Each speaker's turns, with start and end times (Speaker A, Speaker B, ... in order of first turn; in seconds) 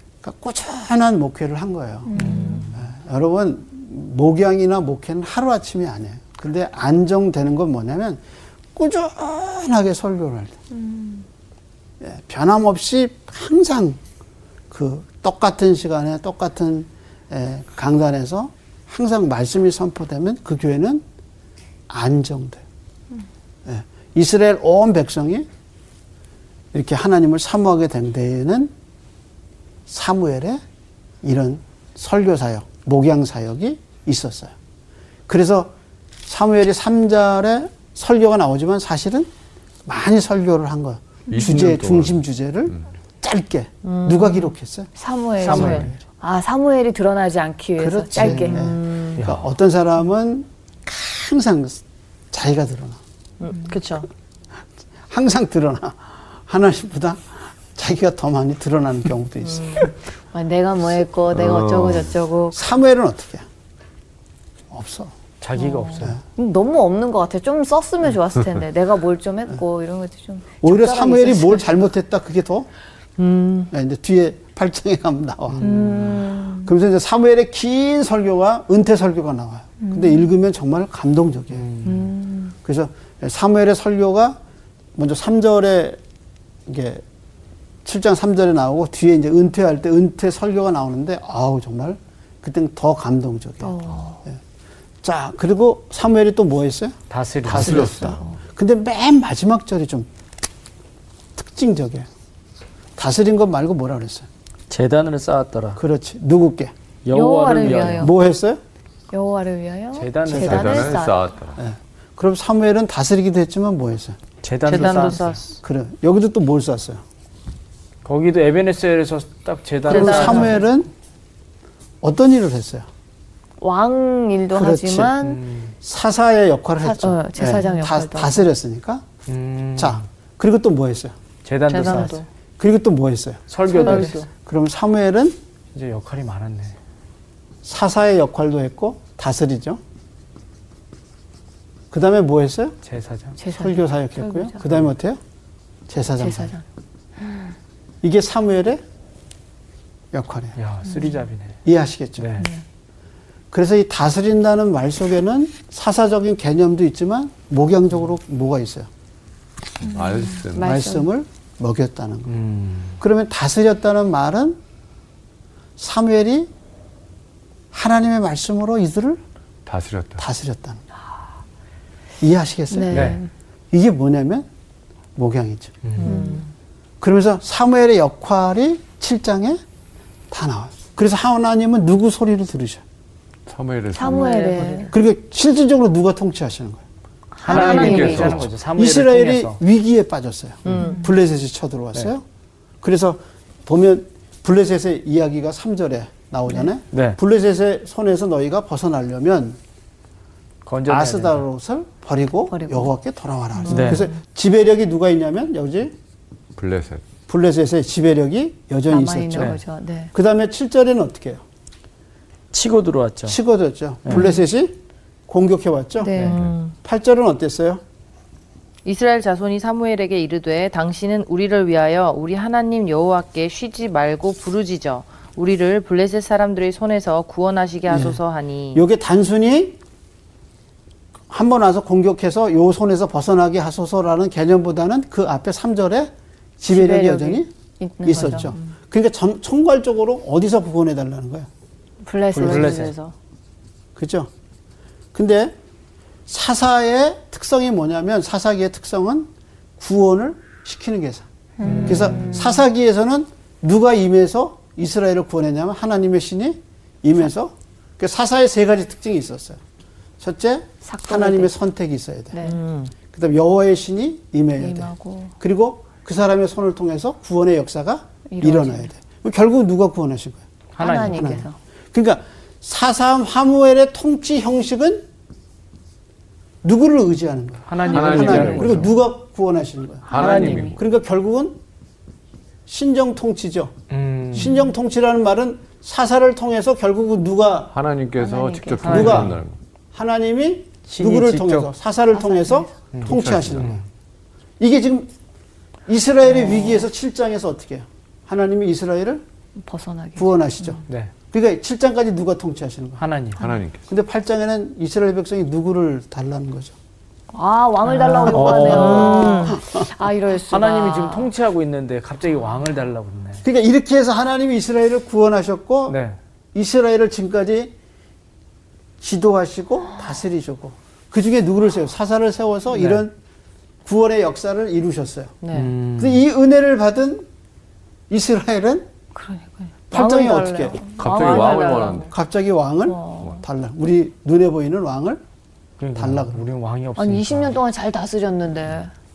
Speaker A: 0.2-8.2, 8.8-10.6, 12.0-14.0, 14.7-21.0, 21.9-22.6, 23.7-25.5, 26.7-28.7, 29.9-30.6, 31.2-34.5, 35.3-35.7, 36.3-39.3, 39.9-46.0, 47.8-51.8, 52.3-53.0, 55.1-59.9, 62.5-63.5, 64.7-65.1, 70.6-72.7, 73.7-75.8, 76.6-81.7, 82.7-84.4, 85.0-86.0, 86.7-87.0, 87.8-94.4, 95.0-100.1, 101.4-102.1, 103.0-104.3, 105.8-106.7, 107.6-108.6, 110.3-110.9, 111.6-114.2, 115.6-117.0, 119.9-120.9, 122.0-122.9, 124.5-125.1, 125.8-129.1, 129.8-131.2, 132.6-135.4, 137.6-139.8, 141.9-142.8, 143.5-145.2, 145.9-146.5, 148.0-148.8, 150.1-150.6, 151.7-152.3, 153.5-158.9, 160.6-162.3, 163.0-164.6, 165.8-166.5, 167.7-169.2, 170.2-170.8, 172.2-173.2, 173.7-174.5, 175.2-175.8, 177.0-179.6, 180.3-182.8, 184.9-186.8, 187.5-192.2, 192.8-199.6, 200.9-206.0, 207.3-209.6, 210.1-211.4, 213.3-217.8, 227.9-228.2, 228.7-229.8, 231.3-237.5, 238.0-241.5, 242.4-242.8, 244.0-244.3, 245.1-245.6, 246.3-251.2, 251.8-259.6, 260.2-262.5, 263.1-270.4, 271.1-275.1, 276.6-281.6, 282.7-283.7, 284.3-287.7, 288.8-289.4, 289.9-293.8, 294.6-295.1, 295.9-299.2, 300.2-303.0, 303.9-306.7, 308.2-309.9, 313.4-316.0, 316.5-317.7, 319.0-323.1, 323.9-325.4, 326.0-327.3, 328.1-328.9, 329.9-330.9, 332.1-335.2, 336.0-336.5
Speaker B: 2.1-2.7, 10.7-11.2, 45.0-49.0, 60.3-62.6, 65.6-71.8, 75.6-76.7, 79.8-80.3, 81.8-82.5, 93.6-94.2, 107.1-108.1, 109.1-111.2, 120.0-120.5, 123.6-125.4, 126.8-128.5, 143.4-144.6, 146.2-146.6, 159.9-161.1, 172.7-173.3, 176.0-176.5, 183.9-184.9, 187.4-188.2, 202.5-202.9, 203.7-204.1, 208.9-210.1, 214.1-214.3, 216.0-216.7, 237.8-238.7, 242.0-243.1, 251.6-252.6, 260.9-261.6, 262.3-262.6, 264.6-265.3, 268.3-268.9, 270.8-271.6, 280.1-280.7, 288.2-289.2, 292.1-292.7, 296.5-296.7, 299.6-300.8, 307.3-311.3, 329.1-331.9, 332.9-333.4, 337.0-338.9
Speaker C: 2.2-2.9, 45.4-45.9, 49.1-49.4, 65.4-66.2, 75.5-76.2, 81.5-82.1, 97.1-98.0, 104.7-105.8, 107.0-108.1, 110.0-110.9, 114.4-115.4, 118.0-120.6, 125.2-125.7, 129.3-130.0, 131.4-132.2, 133.5-134.2, 135.7-136.8, 142.8-143.4, 150.6-151.6, 152.2-152.5, 162.3-163.0, 172.9-173.2, 175.8-176.4, 187.4-189.6, 190.7-190.9, 196.9-197.2, 200.7-201.4, 203.7-204.1, 209.3-209.6, 212.5-213.4, 216.2-216.5, 242.3-242.9, 251.6-252.3, 270.8-271.4, 277.7-278.9, 280.1-280.8, 283.9-284.6, 288.8-289.4, 290.9-291.7, 292.9-293.8, 300.9-301.1, 303.0-303.4, 308.0-309.4, 310.5-313.4, 315.9-316.2, 322.7-323.0, 325.5-326.2, 335.8-337.6
Speaker D: 41.3-42.2, 61.3-62.1, 97.5-98.3, 110.4-111.6, 159.8-160.8, 169.7-170.2, 183.5-184.3, 187.5-188.5, 206.6-207.1, 277.8-278.9, 280.1-280.8, 287.7-289.6, 293.0-293.7, 303.4-303.8, 331.0-332.1
Speaker E: 43.9-44.5, 45.5-45.8, 48.2-49.1, 53.4-54.1, 59.5-59.9, 73.2-73.7, 114.7-115.4, 119.9-120.5, 131.7-132.3, 133.8-134.3, 184.0-184.9, 187.5-188.3, 190.7-191.0, 218.8-228.8, 236.7-237.4, 262.4-262.9, 309.2-309.5, 325.4-325.7, 331.0-332.1